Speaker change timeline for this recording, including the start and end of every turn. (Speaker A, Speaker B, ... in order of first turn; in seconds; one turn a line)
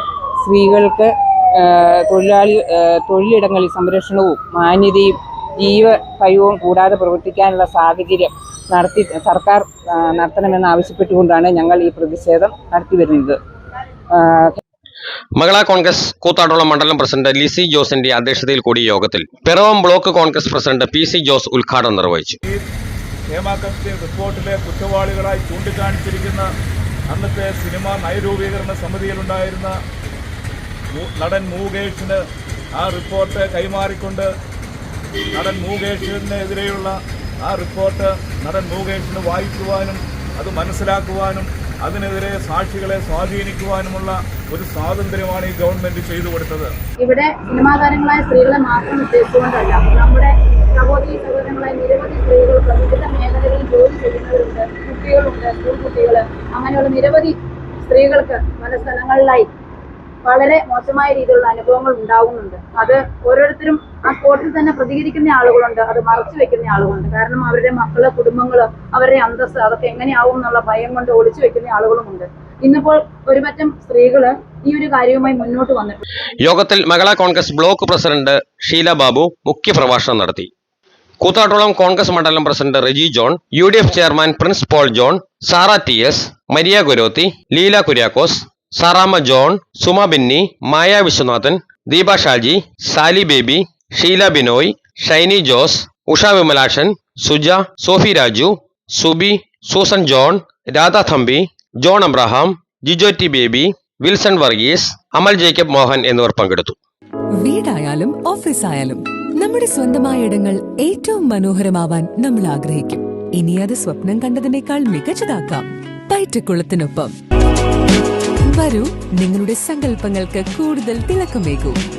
Speaker A: 0.4-13.4
Speaker A: 14.1-14.6
Speaker B: 15.3-22.4
Speaker C: 23.3-26.5
Speaker C: 27.1-29.7
Speaker C: 30.9-32.2
Speaker C: 32.8-34.3
Speaker C: 35.3-46.7
Speaker D: 47.0-57.4
Speaker D: 57.9-59.5
Speaker D: 60.2-76.0
Speaker B: 76.4-80.5
Speaker B: 81.2-106.8
Speaker E: 107.4-117.1
Speaker E: 118.5-121.8